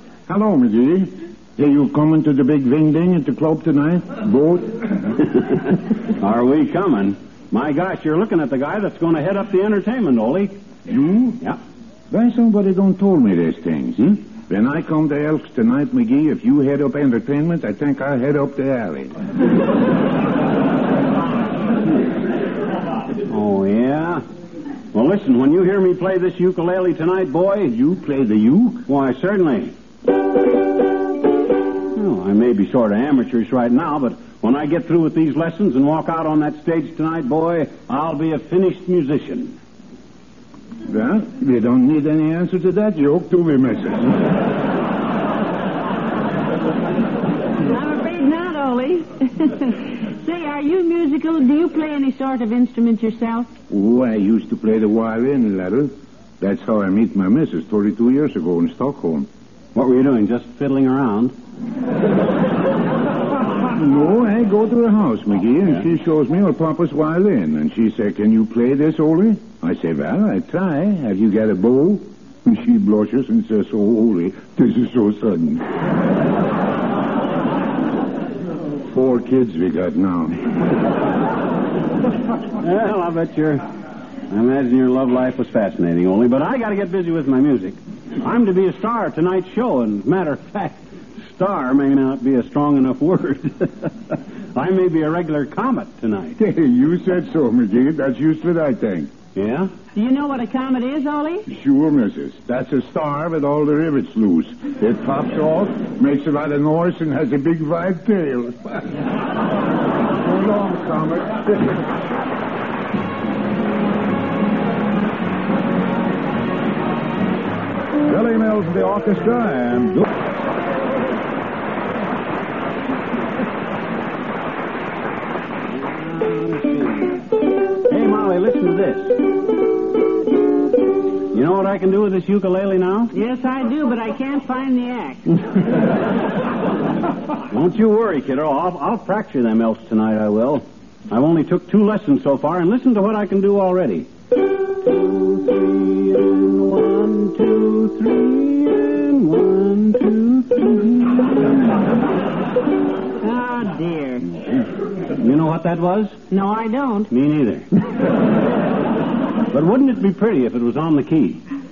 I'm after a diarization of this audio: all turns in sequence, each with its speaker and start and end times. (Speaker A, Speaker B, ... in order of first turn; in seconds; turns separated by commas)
Speaker A: 0.3-5.0, Speaker B: 5.3-10.6, Speaker A: 10.8-11.4, Speaker A: 12.1-19.1, Speaker B: 23.2-24.2, Speaker B: 24.9-27.7, Speaker A: 27.7-28.8, Speaker B: 28.9-29.7, Speaker B: 31.9-39.5, Speaker A: 40.9-44.1, Speaker C: 47.6-53.5, Speaker A: 53.7-59.3, Speaker B: 59.7-61.3, Speaker A: 63.7-75.7, Speaker A: 78.8-80.5, Speaker B: 82.6-83.6, Speaker B: 84.3-96.4, Speaker A: 96.4-99.1, Speaker B: 99.3-99.7, Speaker C: 99.9-101.5, Speaker A: 101.5-109.0, Speaker A: 110.2-111.8, Speaker D: 118.0-120.1, Speaker B: 125.7-129.2, Speaker B: 131.3-133.1, Speaker C: 133.1-135.3, Speaker B: 137.5-144.1, Speaker B: 144.7-151.5, Speaker C: 153.2-154.3, Speaker B: 155.2-156.2, Speaker C: 156.3-157.1, Speaker B: 157.1-157.7, Speaker B: 159.5-161.4